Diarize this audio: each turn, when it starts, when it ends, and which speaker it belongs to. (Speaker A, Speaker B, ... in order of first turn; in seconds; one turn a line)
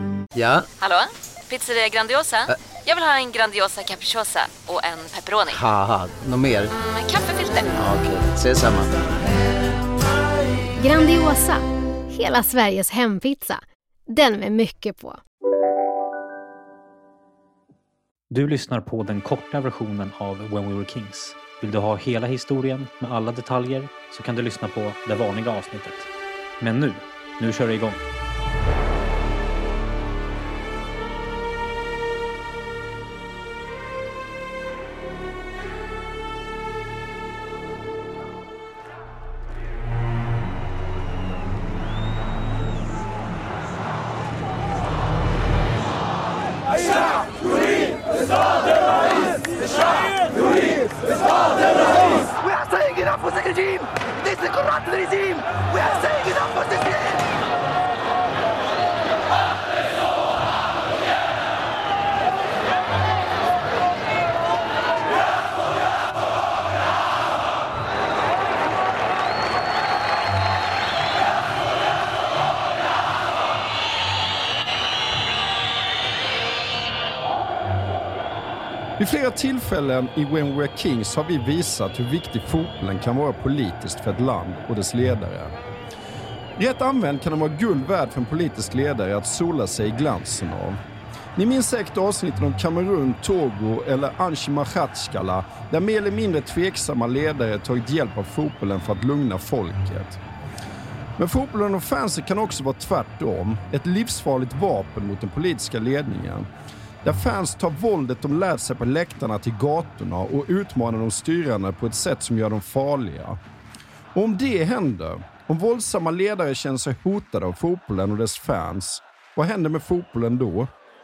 Speaker A: 0.3-0.7
Speaker B: 0.8-5.6
Speaker A: 5.5-6.7
Speaker B: 6.8-7.7
Speaker A: 7.7-9.1
Speaker C: 10.8-15.2
Speaker D: 18.3-26.1
Speaker D: 26.6-28.0
Speaker E: 79.0-85.5
Speaker E: 86.6-90.8
Speaker E: 91.4-100.2
Speaker E: 101.2-106.5
Speaker E: 107.0-113.4
Speaker E: 114.1-120.7